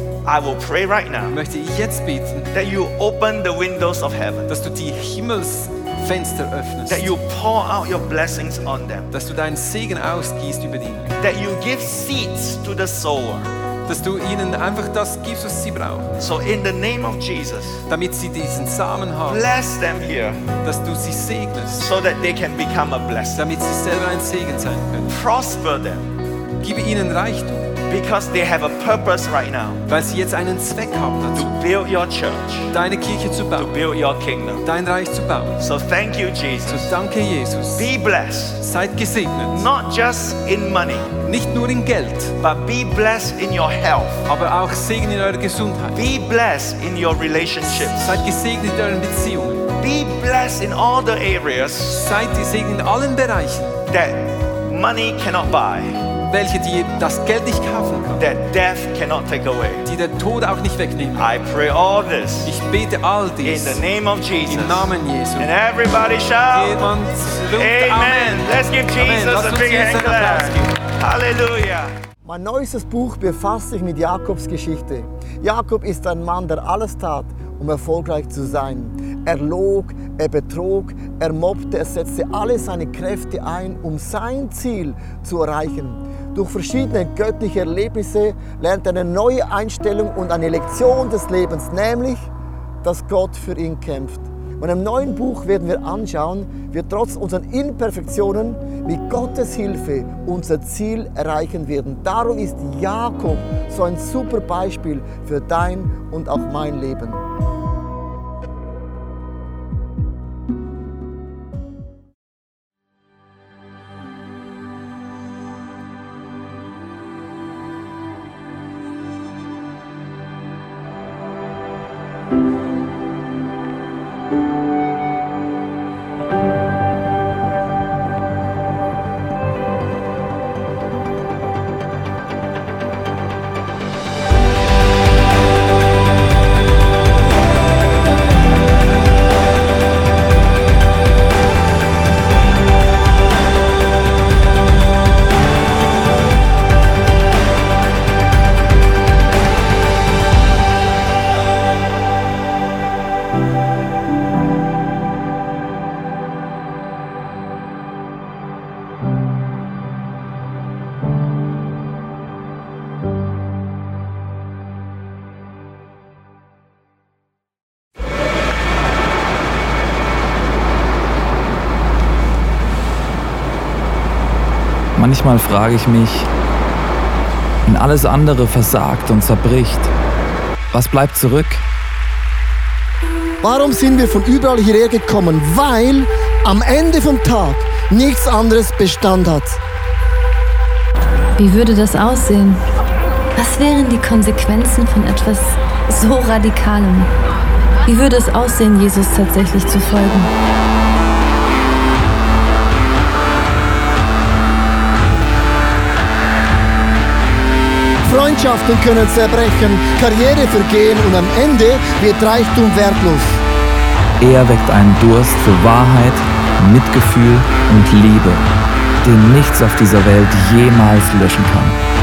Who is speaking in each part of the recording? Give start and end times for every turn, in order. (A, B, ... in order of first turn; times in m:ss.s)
0:00.2-0:01.4 A
0:01.3-0:02.5 B
0:02.5-0:04.5 A
0:04.5-0:07.1 B
0:06.9-0:09.1 A
0:09.1-0:11.2 B
0:11.2-0:13.5 A
0:13.9-0:16.2 B
0:16.2-0:17.8 A
0:17.9-0:19.4 B
0:19.2-0:20.4 A
0:20.6-0:21.9 B
0:21.8-0:23.4 A
0:23.3-0:25.2 B
0:25.1-0:26.1 A
0:26.6-0:27.7 B
0:27.9-0:29.8 A
0:29.9-0:31.5 B
0:31.4-0:32.7 A
0:32.7-0:33.7 B
0:33.6-0:34.6 A
0:34.6-0:35.6 B
0:35.6-0:37.0 A
0:36.6-0:37.9 B
0:37.8-0:38.6 A
0:38.6-0:39.7 B
0:39.5-0:41.1 A
0:41.2-0:42.4 B
0:42.4-0:44.3 A
0:44.3-0:46.0 B
0:46.0-0:48.2 A
0:47.7-0:49.7 B
0:49.8-0:52.1 A
0:51.9-0:53.8 B
0:53.9-0:56.0 A
0:56.3-0:58.3 B
0:58.2-0:59.8 A
0:59.8-1:01.3 B
1:01.2-1:02.5 A
1:02.4-1:03.8 B
1:03.4-1:11.9 A
1:04.5-1:05.5 B
1:06.5-1:10.7 B
1:12.2-1:32.3 C
1:32.8-1:47.2 C
2:55.0-2:56.3 D
2:57.7-2:59.9 D
3:00.7-3:01.6 D
3:03.4-3:09.6 C
3:11.4-3:12.6 E
3:13.4-3:17.1 E
3:17.8-3:20.3 E
3:28.0-3:33.4 C
3:34.2-3:38.5 D
3:39.0-3:41.8 D